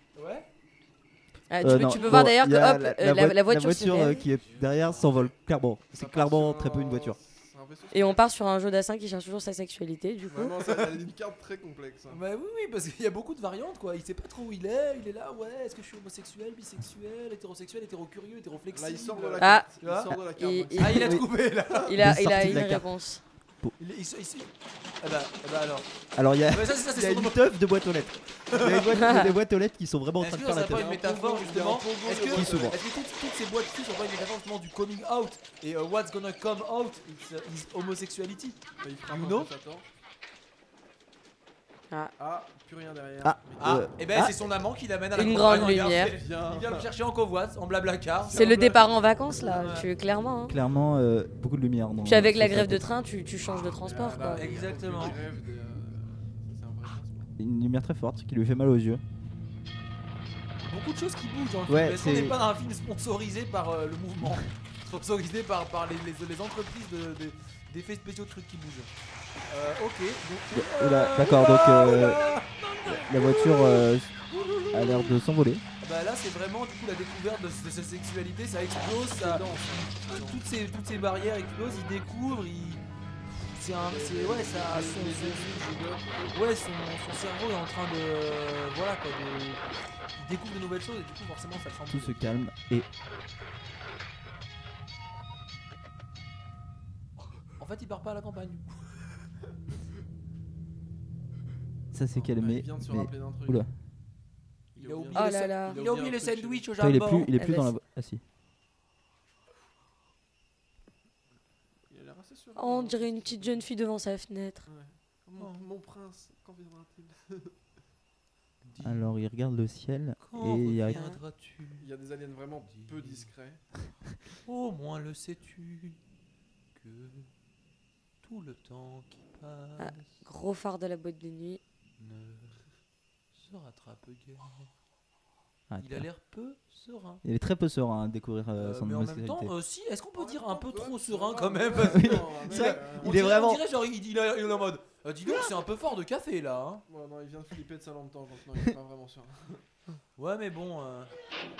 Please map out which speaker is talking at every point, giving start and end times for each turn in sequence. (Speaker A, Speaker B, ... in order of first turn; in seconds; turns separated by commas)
Speaker A: 0.1-0.5, Speaker B: 1.5-4.2, Speaker C: 1.6-7.2, Speaker D: 5.9-8.2, Speaker B: 7.9-10.6, Speaker D: 10.3-12.2, Speaker A: 10.7-11.0, Speaker A: 12.1-20.2, Speaker D: 18.7-21.1, Speaker B: 19.4-19.7, Speaker B: 20.3-21.2, Speaker A: 20.8-21.9, Speaker B: 21.8-23.2, Speaker C: 22.0-22.9, Speaker A: 23.8-24.5, Speaker A: 25.0-25.9, Speaker C: 26.1-30.9, Speaker A: 26.5-27.4, Speaker A: 28.5-29.3, Speaker B: 29.0-29.2, Speaker A: 30.2-39.5, Speaker D: 30.7-32.8, Speaker C: 32.3-32.8, Speaker D: 38.8-39.9, Speaker D: 42.2-43.8, Speaker C: 43.2-44.4, Speaker A: 43.6-48.6, Speaker B: 45.1-46.1, Speaker D: 46.1-46.9, Speaker D: 48.2-48.9, Speaker B: 48.3-50.5, Speaker A: 49.4-49.9, Speaker C: 50.5-52.9, Speaker B: 52.0-54.5, Speaker D: 53.8-57.3, Speaker A: 54.3-55.2, Speaker C: 57.4-59.0, Speaker A: 60.7-68.9, Speaker C: 61.7-62.4, Speaker A: 69.5-73.8, Speaker C: 70.5-72.2, Speaker C: 72.8-74.1, Speaker D: 74.3-74.9, Speaker C: 74.7-75.6, Speaker A: 75.8-82.8, Speaker D: 79.1-80.4, Speaker A: 83.4-85.7, Speaker D: 84.2-86.4, Speaker A: 86.3-89.6, Speaker A: 90.2-92.5, Speaker C: 91.9-92.9, Speaker A: 97.6-98.8, Speaker C: 101.9-103.7, Speaker D: 102.1-103.7, Speaker D: 104.7-106.7, Speaker A: 104.8-107.3, Speaker B: 105.1-105.8, Speaker C: 106.8-108.2, Speaker B: 107.4-107.7, Speaker D: 111.9-113.6, Speaker B: 112.5-114.7, Speaker D: 114.7-117.5, Speaker A: 115.4-115.6, Speaker A: 118.6-119.0, Speaker C: 118.8-121.0, Speaker A: 120.2-121.8, Speaker B: 120.9-121.2, Speaker D: 121.8-123.6, Speaker A: 122.7-123.3, Speaker A: 124.5-126.0, Speaker A: 126.8-127.3, Speaker A: 128.2-130.1, Speaker B: 129.8-131.6, Speaker A: 132.0-132.6, Speaker A: 133.3-134.7, Speaker C: 135.7-136.1, Speaker A: 135.8-137.2, Speaker C: 137.2-139.5, Speaker A: 138.6-146.8, Speaker D: 140.2-143.3, Speaker C: 141.8-143.6, Speaker D: 146.9-149.6, Speaker A: 150.2-151.1